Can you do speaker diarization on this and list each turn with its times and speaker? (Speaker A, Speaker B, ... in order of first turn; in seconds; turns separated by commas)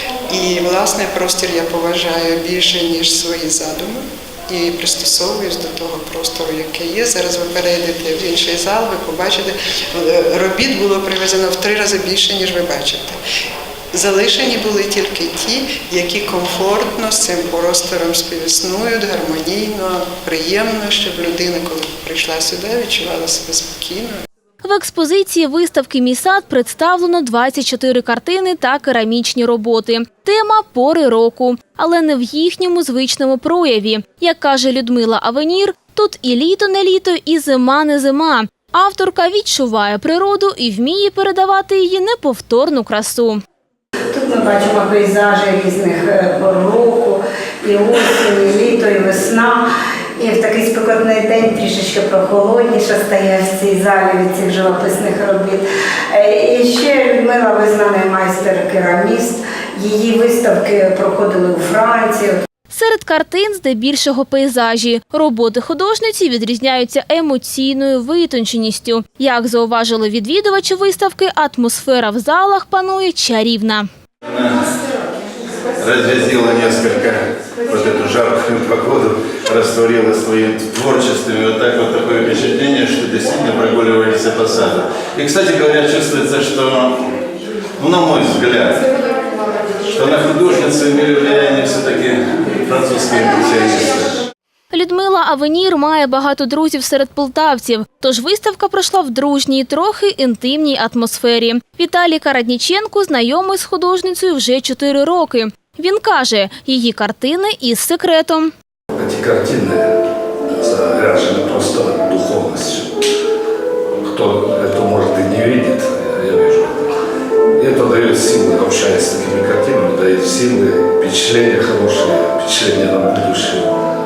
Speaker A: 0.3-13.2, Speaker A: 13.9-24.2, Speaker B: 24.6-43.4, Speaker C: 44.1-62.4, Speaker B: 62.7-73.9, Speaker D: 74.3-74.7, Speaker D: 75.8-87.2, Speaker D: 87.8-88.9, Speaker D: 89.8-94.2, Speaker B: 94.7-108.5, Speaker E: 108.9-113.0, Speaker E: 114.0-117.0, Speaker E: 117.5-123.8